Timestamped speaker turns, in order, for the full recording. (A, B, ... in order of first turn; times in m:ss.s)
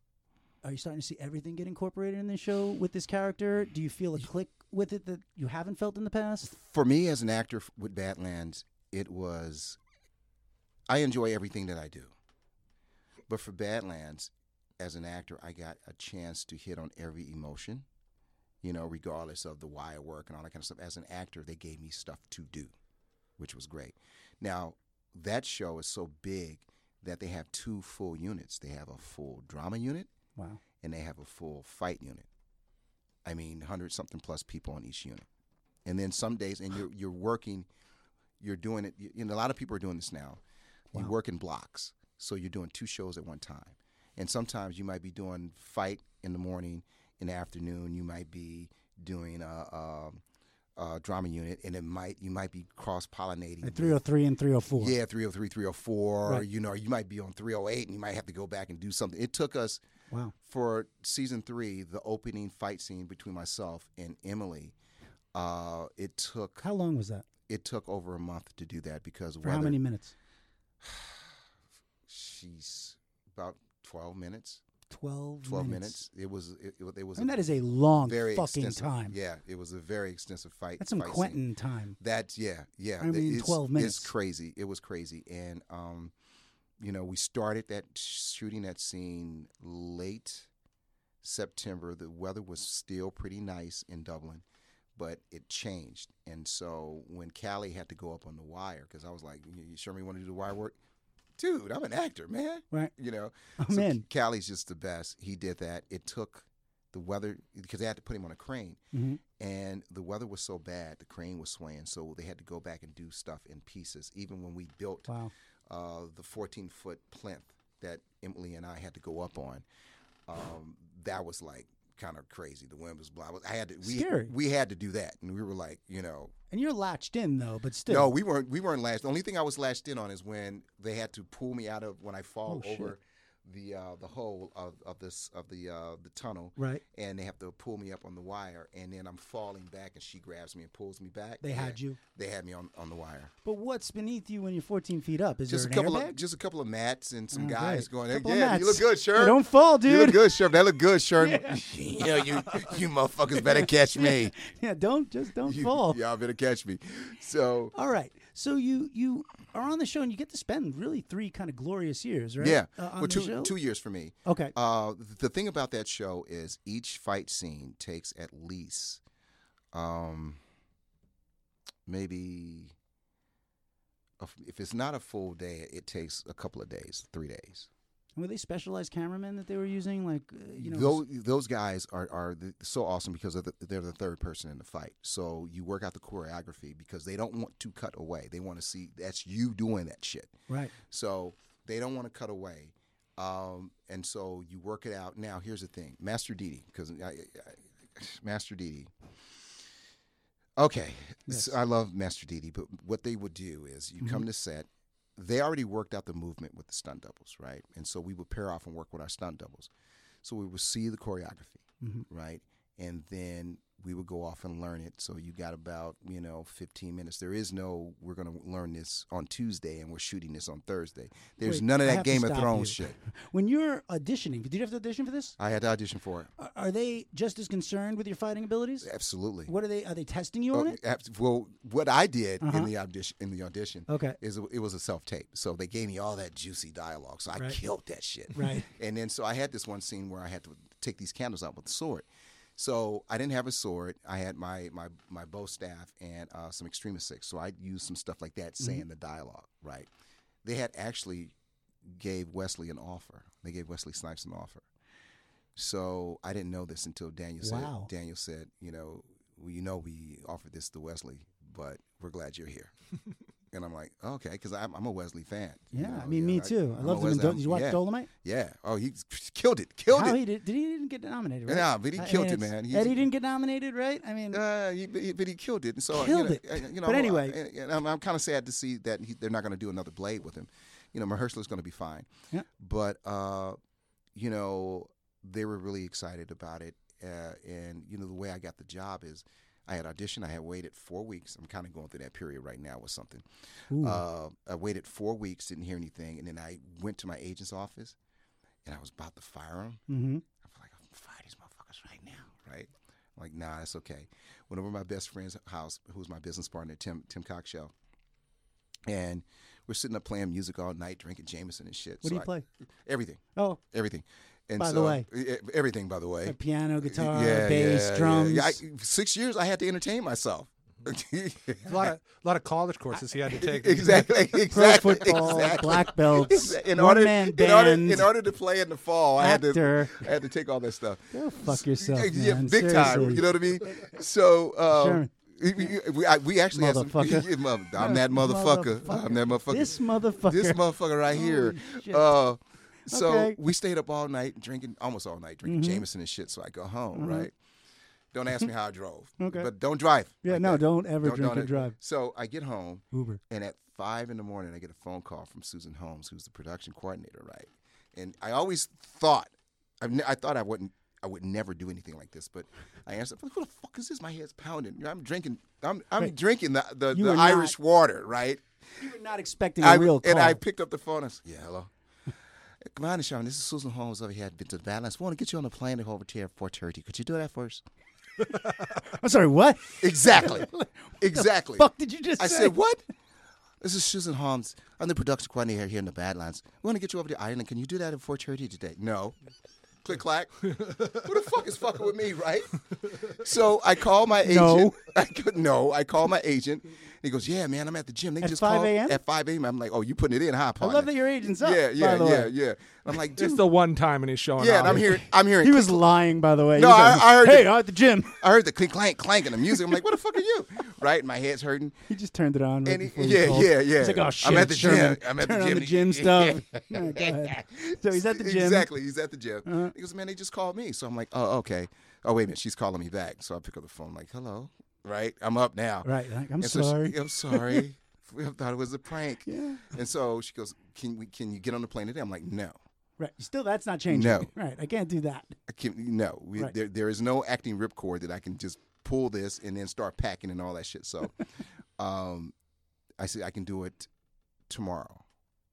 0:00.6-0:06.5 A
0:06.5-0:09.8 B
0:10.9-0:12.1 B
0:13.3-0:17.8 B
0:18.6-0:22.7 B
0:23.4-0:30.1 B
0:30.8-0:32.3 B
0:33.2-0:35.2 B
0:35.8-0:37.7 B
0:38.4-0:40.4 B
0:40.9-0:50.2 B
0:50.8-0:54.0 B
0:53.6-0:54.9 A
0:54.7-0:59.8 B
1:00.4-1:04.7 B
1:05.3-1:06.6 B
1:06.6-1:07.2 A
1:07.5-1:09.8 B
1:09.4-1:10.1 A
1:10.8-1:11.3 B
1:12.1-1:14.6 B
1:14.9-1:16.0 A
1:15.4-1:17.4 B
1:17.2-1:19.2 A
1:18.0-1:21.4 B
1:20.8-1:22.0 A
1:22.0-1:26.1 B
1:23.0-1:24.1 A
1:26.8-1:30.5 B
1:31.2-1:34.4 B
1:35.0-1:40.8 B
1:41.4-1:48.8 B
1:43.6-1:44.0 A
1:48.9-1:49.2 A
1:49.4-1:55.1 B
1:55.1-1:55.3 A
1:55.7-1:59.6 B
2:00.3-2:06.3 B
2:03.8-2:04.3 A
2:06.5-2:08.1 A
2:07.9-2:23.3 B
2:12.5-2:12.9 A
2:16.6-2:16.8 A
2:21.4-2:22.0 A
2:23.4-2:26.2 A
2:25.5-2:34.3 B
2:27.3-2:30.5 A
2:31.2-2:31.6 A
2:33.4-2:36.0 A
2:35.4-2:37.7 B
2:37.7-2:43.5 A
2:42.4-2:49.0 B
2:44.2-2:44.5 A
2:49.7-2:50.4 B
2:51.8-2:52.7 B
2:54.2-2:57.7 B
2:58.2-3:01.0 A
3:00.6-3:18.9 B
3:10.5-3:10.7 A
3:20.6-3:29.7 B
3:21.3-3:21.5 A
3:30.2-3:43.0 B
3:31.8-3:32.0 A
3:41.4-3:45.4 A
3:45.4-3:46.3 B
3:46.4-3:48.9 A
3:48.8-3:49.5 B
3:49.5-3:50.8 A
3:50.5-4:09.9 B
3:52.4-3:52.7 A
3:53.9-3:54.2 A
3:58.3-3:58.7 A
4:10.4-4:11.3 B
4:11.8-4:14.6 B
4:15.6-4:22.7 B
4:17.4-4:17.9 A
4:23.5-4:30.2 B
4:25.7-4:28.1 A
4:29.9-4:34.4 A
4:31.5-4:33.0 B
4:34.3-4:43.6 B
4:35.9-4:37.4 A
4:44.1-4:58.0 B
4:53.7-4:54.0 A
4:58.6-4:59.8 B
4:59.9-5:00.2 A
5:00.4-5:07.7 B
5:08.9-5:12.3 B
5:12.0-5:12.4 A
5:12.8-5:21.9 B
5:14.6-5:15.0 A
5:16.2-5:18.6 A
5:21.6-5:24.1 C
5:23.4-5:47.3 B
5:24.5-5:28.1 A
5:29.2-5:30.1 A
5:31.1-5:33.3 A
5:34.7-5:35.1 A
5:36.5-5:42.2 A
5:42.9-5:43.4 A
5:45.4-5:45.8 A
5:46.9-5:47.3 A
5:48.1-6:08.4 B
5:49.2-5:49.5 A
5:50.2-5:51.8 A
5:52.9-5:53.2 A
6:06.9-6:07.5 A
6:08.8-6:10.4 A
6:09.6-6:11.7 B
6:12.6-6:17.6 B
6:18.5-6:22.6 A
6:19.8-6:22.8 B
6:23.6-6:29.2 B
6:29.8-6:43.4 B
6:34.2-6:34.7 A
6:38.2-6:39.0 A
6:40.6-6:42.3 A
6:43.1-6:45.0 C
6:44.4-6:45.8 B
6:44.7-6:48.2 A
6:46.5-6:51.8 B
6:51.9-6:58.7 A
6:52.6-7:12.6 B
6:59.4-6:59.7 A
7:05.8-7:07.6 A
7:09.2-7:09.7 A
7:13.0-7:15.4 A
7:13.9-7:14.3 B
7:15.5-7:21.2 B
7:21.8-7:22.3 B
7:23.0-7:23.9 B
7:24.5-7:25.0 B